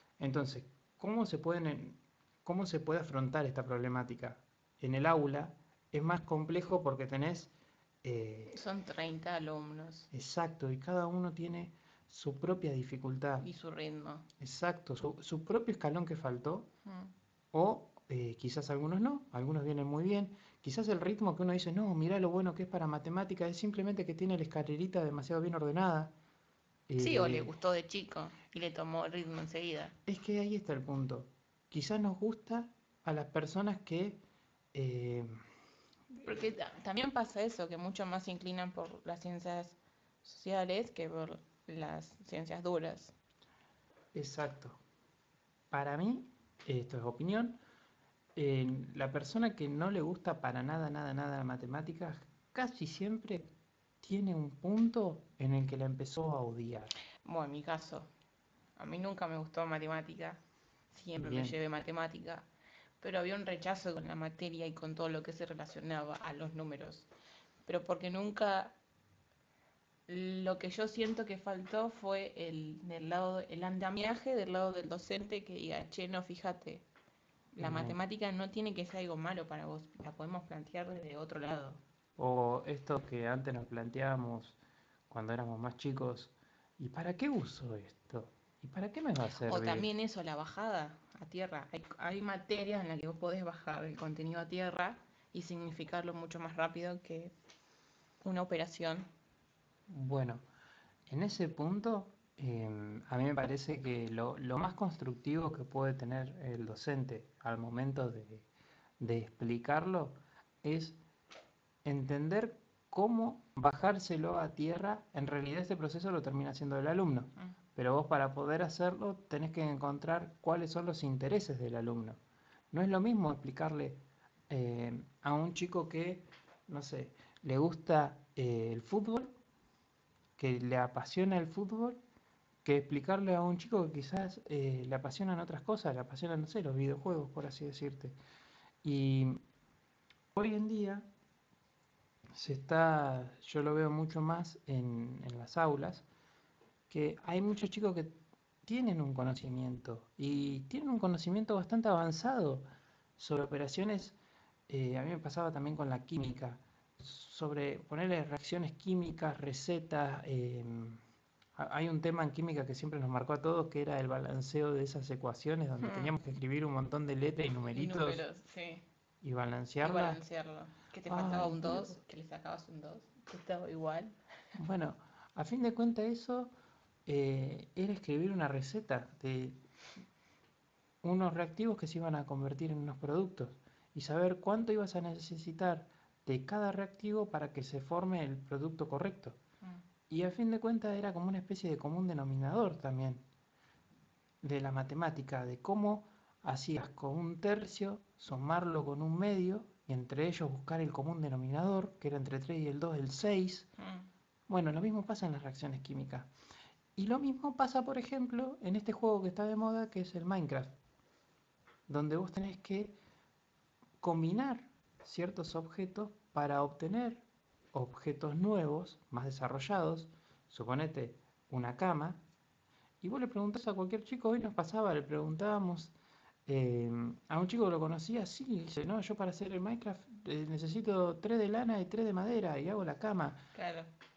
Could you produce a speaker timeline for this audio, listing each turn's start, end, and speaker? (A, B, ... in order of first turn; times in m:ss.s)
0:00.2-0:07.5 A
0:08.0-0:08.6 A
0:08.5-0:10.1 B
0:10.1-0:13.5 A
0:13.4-0:14.3 B
0:14.4-0:16.7 A
0:16.9-0:17.1 B
0:17.5-0:26.1 A
0:26.9-0:27.5 A
0:27.0-0:30.0 B
0:30.1-0:34.2 A
0:34.7-0:35.3 A
0:36.2-0:43.2 B
0:44.1-0:44.8 A
0:45.7-0:47.6 A
0:48.4-0:53.5 A
0:54.0-0:56.9 A
0:57.2-0:58.1 B
0:58.8-1:00.4 B
1:00.9-1:02.5 B
1:01.2-1:01.6 A
1:03.0-1:07.1 B
1:07.7-1:08.8 B
1:10.1-1:16.8 B
1:17.6-1:21.8 B
1:17.6-1:18.0 A
1:22.2-1:24.6 A
1:25.1-1:29.9 A
1:29.4-1:37.3 B
1:38.2-1:39.1 B
1:39.9-1:40.4 A
1:41.1-1:48.5 A
1:49.0-1:51.0 A
1:51.8-2:02.2 A
2:02.7-2:09.4 A
2:10.4-2:12.0 A
2:12.6-2:18.2 A
2:18.8-2:19.4 A
2:20.3-2:21.1 A
2:22.3-2:26.1 A
2:26.9-2:32.6 A
2:33.2-2:34.2 A
2:34.7-2:41.0 A
2:41.6-2:48.2 A
2:45.8-2:46.1 B
2:47.7-2:48.8 B
2:49.2-2:50.2 A
2:49.8-2:54.2 B
2:51.1-2:52.0 A
2:54.6-2:56.5 A
2:57.1-2:59.6 A
3:01.0-3:09.4 A
3:10.1-3:13.2 A
3:14.4-3:23.7 A
3:23.8-3:24.1 B
3:24.5-3:26.3 A
3:27.0-3:30.8 A
3:31.9-3:33.0 A
3:34.0-3:42.2 A
3:43.0-3:45.9 A
3:46.5-3:53.4 A
3:53.5-3:53.9 B